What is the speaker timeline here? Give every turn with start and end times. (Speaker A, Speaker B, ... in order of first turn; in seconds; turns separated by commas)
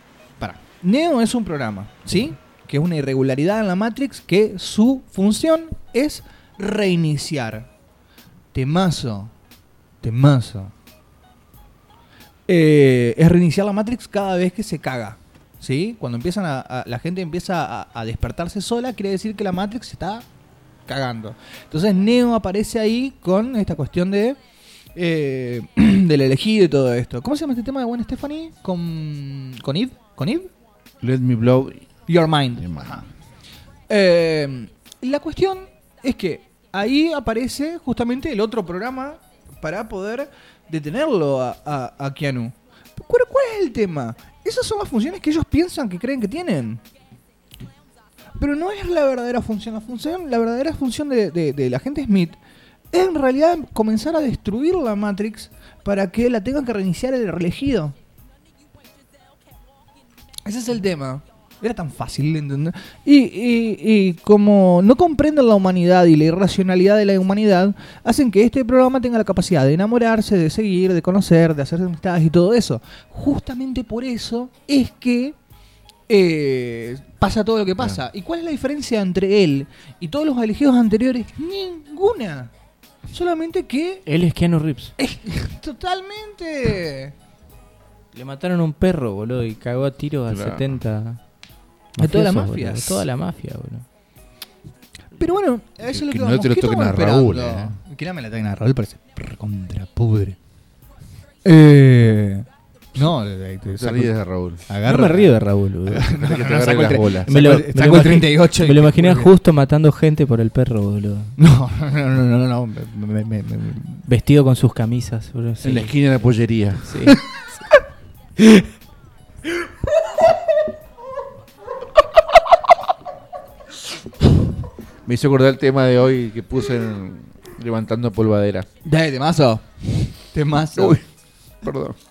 Speaker A: 0.4-7.7, Speaker A: 8.5-9.3, Speaker A: 10.0-10.7, Speaker A: 12.5-20.3, Speaker A: 20.9-24.4, Speaker A: 24.9-30.5, Speaker B: 31.0-31.9, Speaker A: 32.1-33.0, Speaker B: 32.6-33.1, Speaker A: 33.9-46.8, Speaker A: 48.4-52.4, Speaker A: 52.9-58.0, Speaker A: 60.5-75.4, Speaker A: 76.1-82.5, Speaker A: 83.1-84.1, Speaker C: 84.1-85.0, Speaker A: 85.0-87.1, Speaker C: 88.1-91.2, Speaker B: 90.3-90.8, Speaker A: 92.0-93.0, Speaker C: 92.0-93.9, Speaker A: 95.2-100.4, Speaker B: 95.8-97.8, Speaker A: 101.5-104.1, Speaker B: 103.7-104.7, Speaker A: 104.7-105.3, Speaker C: 104.8-106.1, Speaker A: 105.9-109.3, Speaker B: 106.0-107.3, Speaker C: 107.2-111.3, Speaker A: 111.4-114.0, Speaker C: 114.0-115.9, Speaker B: 115.6-117.1, Speaker C: 116.8-117.2, Speaker B: 125.0-128.7, Speaker A: 128.8-131.0, Speaker B: 130.7-131.0, Speaker B: 131.6-132.0